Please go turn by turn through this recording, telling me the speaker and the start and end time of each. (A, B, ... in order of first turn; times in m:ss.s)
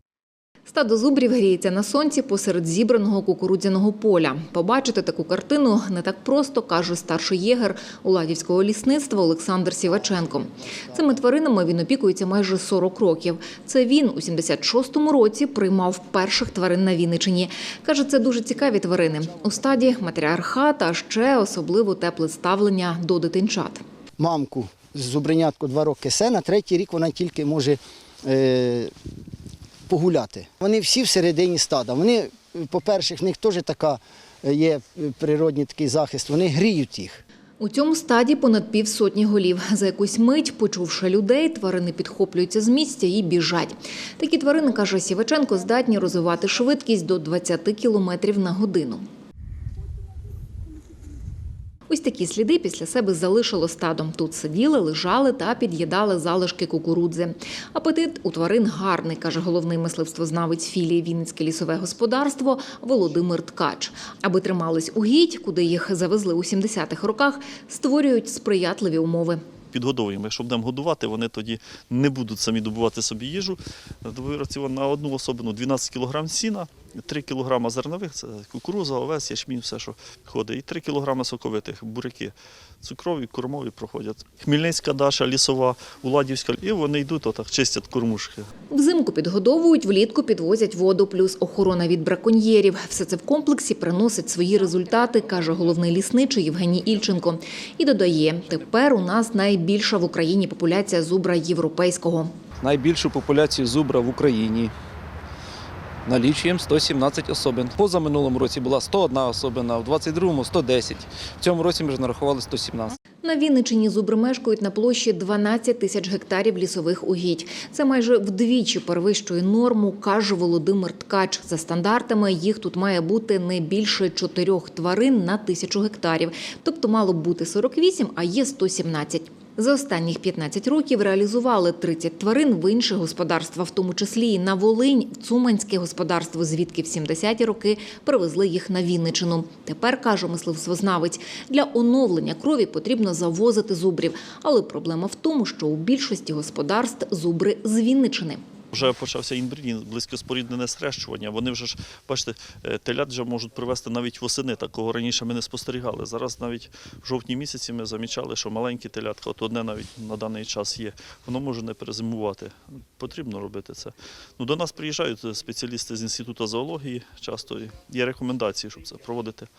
0:00.7-0:23.8 A
0:24.2-0:28.9 B
0:29.9-0:37.2 B
0:37.6-0:49.0 A
0:51.9-1:09.4 A
1:09.7-1:28.5 C
1:28.7-1:42.3 A
1:42.6-1:44.7 D
1:46.0-1:53.0 D
1:53.2-2:28.4 A
2:28.7-2:49.5 C